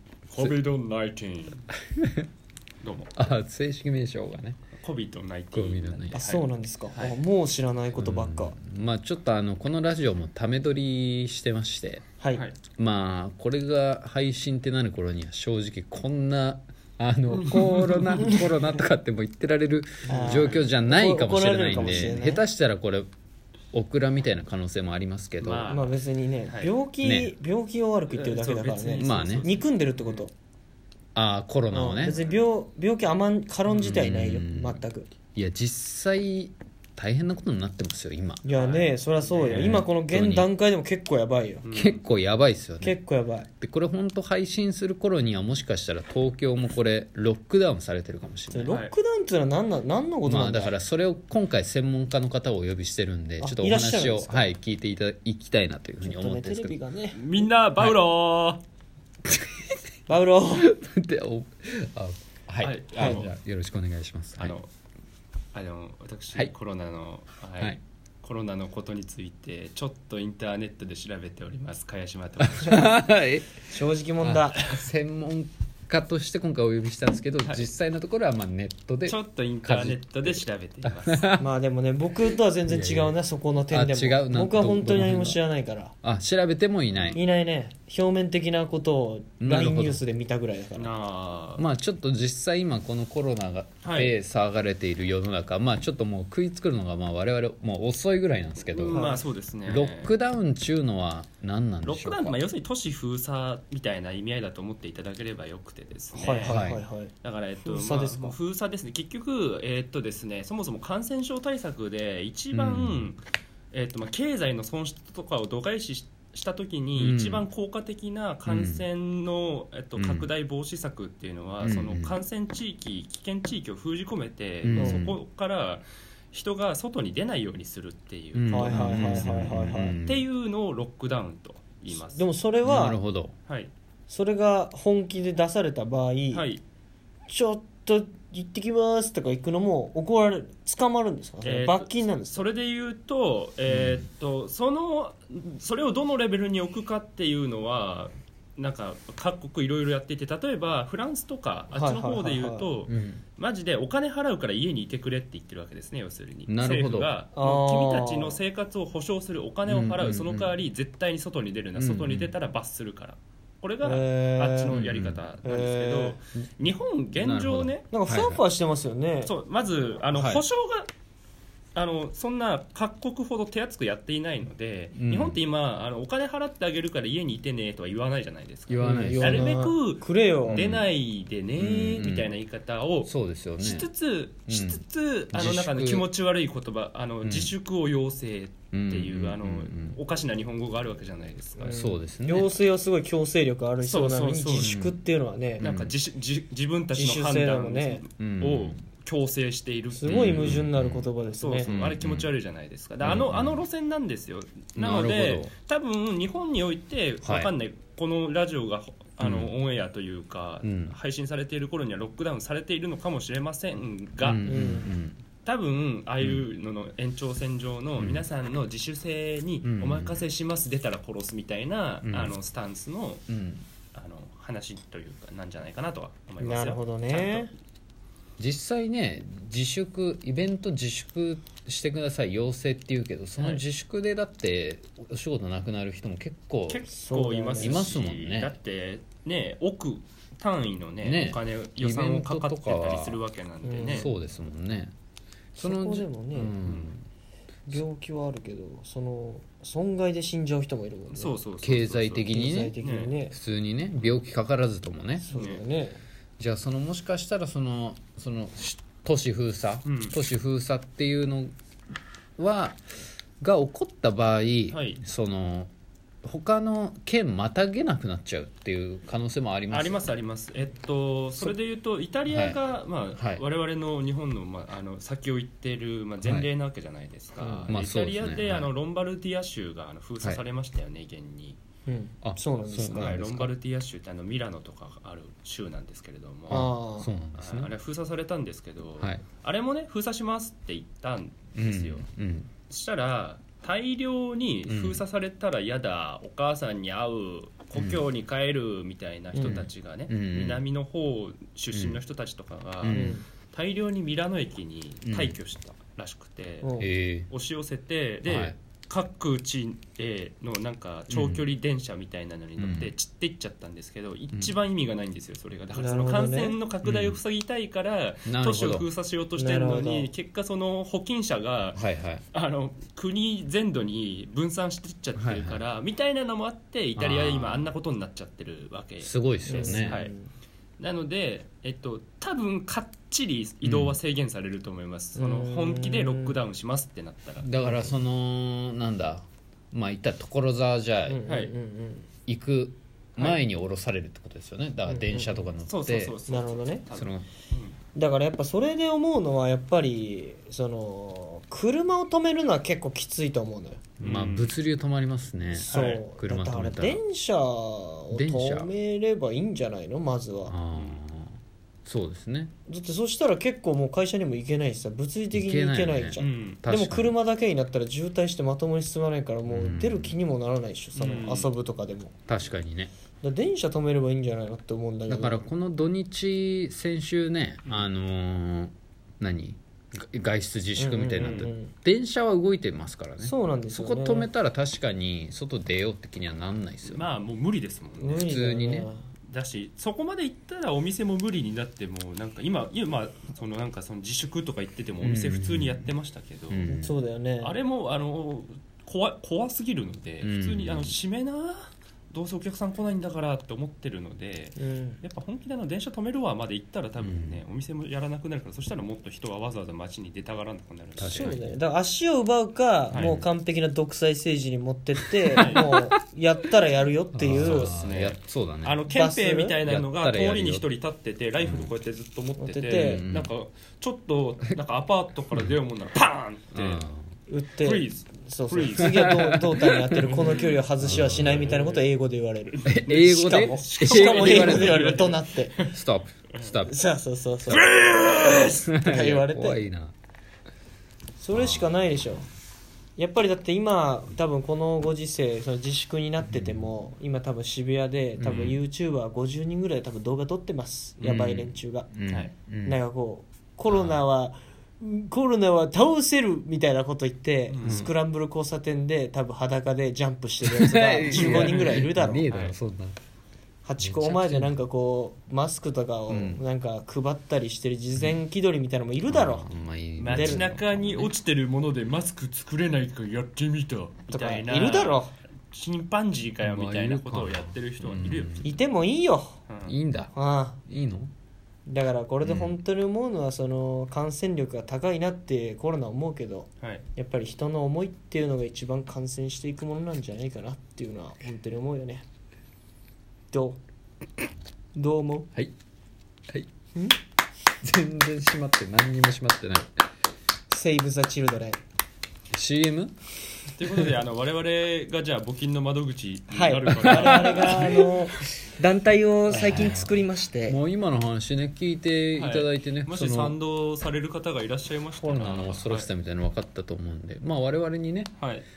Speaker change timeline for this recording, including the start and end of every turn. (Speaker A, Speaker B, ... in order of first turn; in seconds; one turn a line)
Speaker A: 0.3-1.7
Speaker B: 1.9-2.3
Speaker A: 2.8-3.1
Speaker B: 3.1-4.6
Speaker A: 4.8-7.2
Speaker B: 5.5-6.2
Speaker C: 6.1-8.6
Speaker B: 8.0-12.1
Speaker C: 12.2-12.4
Speaker B: 12.8-23.1
Speaker A: 17.4-18.4
Speaker C: 20.1-22.4
Speaker A: 20.1-20.7
Speaker A: 21.7-22.1
Speaker B: 23.7-25.7
Speaker A: 25.4-26.7
Speaker C: 25.7-30.3
Speaker B: 27.0-27.4
Speaker A: 28.1-30.2
Speaker B: 29.0-29.5
Speaker B: 31.1-32.2
Speaker C: 31.7-35.1
Speaker B: 33.8-34.8
Speaker B: 35.4-38.4
Speaker C: 38.4-41.6
Speaker A: 38.5-39.8
Speaker B: 39.5-40.5
Speaker A: 41.6-42.0
Speaker B: 41.8-43.0
Speaker C: 42.8-43.5
Speaker B: 43.6-48.7
Speaker C: 48.5-50.8
Speaker A: 48.7-48.9
Speaker B: 50.3-56.8
Speaker C: 53.4-54.5
Speaker C: 56.0-57.5
Speaker A: 57.1-58.6
Speaker B: 59.2-59.7
Speaker C: 60.1-60.7
Speaker B: 60.6-64.6
Speaker A: 62.6-63.3
Speaker C: 63.0-63.2
Speaker A: 64.4-64.7
Speaker A: 65.5-73.0
Speaker B: 72.4-73.5
Speaker C: 73.7-74.6
Speaker B: 74.2-81.5
Speaker A: 79.1-81.3
Speaker C: 81.4-85.9
Speaker B: 82.7-83.2
Speaker B: 83.7-85.4
Speaker B: 86.0-87.2
Speaker A: 86.9-87.2
Speaker C: 87.1-90.9
Speaker B: 89.4-90.0
Speaker A: 90.8-91.6
Speaker B: 91.6-99.0
Speaker A: 93.8-94.1
Speaker A: 98.7-100.1
Speaker C: 98.9-99.2
Speaker B: 99.7-102.4
Speaker A: 101.8-106.6
Speaker C: 106.1-108.4
Speaker B: 106.5-106.8
Speaker A: 107.2-113.2
Speaker B: 112.5-113.1
Speaker A: 113.7-132.2
Speaker B: 117.0-117.5
Speaker B: 118.5-118.9
Speaker B: 120.0-120.3
Speaker B: 121.6-122.2
Speaker B: 124.6-125.2
Speaker C: 124.8-125.0
Speaker B: 128.3-130.2
Speaker C: 128.5-129.9
Speaker C: 131.9-133.0
Speaker B: 132.6-133.3
Speaker C: 134.1-136.5
Speaker A: 136.3-136.6
Speaker C: 137.3-142.4
Speaker A: 141.4-167.9
Speaker B: 143.7-144.1
Speaker C: 151.7-152.7
Speaker B: 152.9-153.2
Speaker B: 156.5-157.1
Speaker C: 157.3-158.4
Speaker B: 159.7-160.5
Speaker B: 161.8-162.3
Speaker C: 163.8-164.8
Speaker B: 164.7-165.2
Speaker C: 165.4-166.2
Speaker B: 167.2-168.4
Speaker C: 167.9-169.3
Speaker A: 169.2-170.9
Speaker B: 170.1-170.4
Speaker A: 171.8-191.8
Speaker B: 174.9-175.4
Speaker B: 178.7-179.5
Speaker C: 178.8-180.7
Speaker B: 180.5-180.9
Speaker B: 181.6-182.3
Speaker B: 183.0-183.9
Speaker B: 184.5-186.1
Speaker B: 187.2-187.5
Speaker B: 188.7-190.0
Speaker C: 191.6-195.7
Speaker B: 191.7-192.5
Speaker A: 193.8-194.8
Speaker B: 194.5-195.0
Speaker B: 195.6-195.9
Speaker A: 195.6-200.7
Speaker C: 196.9-198.0
Speaker B: 198.2-198.8
Speaker C: 199.9-201.7
Speaker B: 200.1-201.1
Speaker A: 201.4-214.6
Speaker B: 201.7-202.3
Speaker B: 203.0-203.6
Speaker B: 204.8-205.5
Speaker B: 207.2-207.5
Speaker B: 209.2-209.5
Speaker B: 210.6-210.9
Speaker B: 214.2-215.2
Speaker C: 214.4-214.9
Speaker A: 215.5-223.2
Speaker B: 218.0-218.2
Speaker B: 219.6-220.2
Speaker B: 222.1-222.3
Speaker B: 223.3-223.7
Speaker A: 223.9-227.5
Speaker C: 226.4-227.5
Speaker B: 228.4-236.8
Speaker A: 233.4-233.6
Speaker A: 236.7-244.1
Speaker C: 237.0-237.9
Speaker B: 237.6-238.6
Speaker B: 241.0-243.2
Speaker C: 243.6-244.1
Speaker B: 243.9-244.9
Speaker B: 245.6-247.1
Speaker C: 245.6-246.6
Speaker A: 246.6-246.9
Speaker C: 247.7-251.4
Speaker A: 251.1-253.1
Speaker B: 251.6-252.8
Speaker C: 252.3-253.4
Speaker B: 253.3-255.3
Speaker C: 255.2-256.0
Speaker A: 255.3-255.6
Speaker B: 256.4-261.5
Speaker A: 259.9-260.1
Speaker B: 262.4-262.8
Speaker B: 263.4-265.7
Speaker A: 264.7-265.0
Speaker B: 266.2-270.0
Speaker A: 269.7-281.6
Speaker B: 272.3-272.6
Speaker B: 273.2-273.4
Speaker B: 276.2-276.5
Speaker C: 277.4-277.7
Speaker B: 277.7-278.7
Speaker C: 281.9-283.1
Speaker B: 282.2-283.5
Speaker A: 282.9-286.7
Speaker B: 286.5-287.7
Speaker C: 286.5-287.1
Speaker A: 287.4-292.1
Speaker B: 289.0-289.2
Speaker B: 291.6-292.5
Speaker A: 292.7-306.7
Speaker B: 294.7-295.0
Speaker B: 297.8-298.0
Speaker C: 299.3-299.6
Speaker B: 299.4-300.6
Speaker B: 301.7-302.0
Speaker B: 302.8-303.2
Speaker C: 302.9-303.2
Speaker B: 305.1-305.4
Speaker C: 306.6-306.9
Speaker B: 306.8-307.3
Speaker A: 307.3-330.1
Speaker B: 308.2-308.6
Speaker B: 311.1-311.5
Speaker B: 312.6-312.9
Speaker C: 315.8-316.6
Speaker B: 316.8-317.2
Speaker B: 318.3-318.9
Speaker C: 319.4-320.1
Speaker B: 321.8-322.2
Speaker B: 325.2-325.6
Speaker B: 327.0-327.7
Speaker B: 329.0-330.0
Speaker C: 329.4-330.3
Speaker A: 330.8-337.5
Speaker B: 333.6-334.0
Speaker C: 335.2-336.4
Speaker B: 337.4-341.2
Speaker C: 337.6-338.0
Speaker C: 341.1-342.1
Speaker A: 341.3-341.5
Speaker B: 342.3-346.2
Speaker C: 344.9-345.5
Speaker A: 345.6-347.8
Speaker C: 346.3-346.9
Speaker B: 346.9-347.3
Speaker C: 347.9-353.9
Speaker A: 354.0-354.5
Speaker B: 354.0-357.0
Speaker C: 355.5-360.6
Speaker A: 355.6-356.0
Speaker B: 358.1-358.7
Speaker B: 360.5-362.5
Speaker C: 362.7-372.1
Speaker B: 365.3-367.1
Speaker A: 366.2-366.6
Speaker B: 369.5-370.1
Speaker A: 371.0-371.5
Speaker B: 372.3-372.9
Speaker C: 373.2-375.5
Speaker B: 375.1-387.1
Speaker A: 377.6-377.9
Speaker C: 380.8-381.7
Speaker A: 381.2-381.5
Speaker C: 383.2-384.3
Speaker A: 386.9-388.4
Speaker C: 388.0-389.0
Speaker B: 388.3-388.9
Speaker A: 389.3-396.7
Speaker B: 395.0-395.8
Speaker B: 396.5-396.9
Speaker C: 396.7-397.6
Speaker A: 397.4-411.4
Speaker B: 400.2-401.0
Speaker C: 404.6-405.0
Speaker B: 407.0-407.4
Speaker B: 411.0-411.6
Speaker C: 411.0-417.8
Speaker A: 412.9-413.2
Speaker B: 412.9-413.3
Speaker A: 415.4-415.7
Speaker B: 415.4-415.9
Speaker B: 417.1-418.8
Speaker A: 417.3-426.9
Speaker C: 418.9-419.6
Speaker B: 419.6-420.7
Speaker B: 421.4-421.7
Speaker C: 422.4-423.1
Speaker B: 422.7-423.3
Speaker B: 426.6-427.1
Speaker C: 427.3-435.6
Speaker A: 427.6-429.1
Speaker B: 428.8-431.6
Speaker A: 430.0-431.8
Speaker A: 432.5-435.7
Speaker B: 432.7-435.1
Speaker B: 435.6-436.8
Speaker C: 436.7-439.6
Speaker A: 437.5-438.6
Speaker B: 438.6-439.9
Speaker C: 441.2-442.3
Speaker B: 441.3-441.7
Speaker C: 443.0-451.9
Speaker B: 446.3-446.7
Speaker B: 448.2-448.6
Speaker A: 451.0-451.3
Speaker B: 451.1-452.8
Speaker A: 452.1-452.3
Speaker C: 452.6-462.3
Speaker B: 453.7-454.0
Speaker A: 457.5-457.8
Speaker B: 457.6-457.9
Speaker B: 460.4-463.0
Speaker A: 461.1-462.6
Speaker C: 463.6-469.5
Speaker B: 463.8-464.6
Speaker B: 466.1-466.4
Speaker B: 469.1-471.1
Speaker A: 470.0-478.4
Speaker C: 470.1-470.5
Speaker C: 474.1-475.1
Speaker B: 476.4-478.6
Speaker C: 478.4-479.4
Speaker A: 479.5-479.8
Speaker B: 479.7-480.1
Speaker C: 480.1-480.6
Speaker B: 480.6-481.1
Speaker C: 481.7-492.1
Speaker B: 482.2-482.6
Speaker C: 493.3-493.6
Speaker C: 494.8-495.3
Speaker B: 497.6-499.7
Speaker C: 500.5-501.6
Speaker B: 502.3-502.9
Speaker A: 503.6-507.8
Speaker C: 506.3-510.6
Speaker B: 506.7-508.1
Speaker B: 509.3-513.4
Speaker A: 512.2-515.9
Speaker C: 515.0-515.4
Speaker B: 515.1-518.1
Speaker A: 518.2-518.5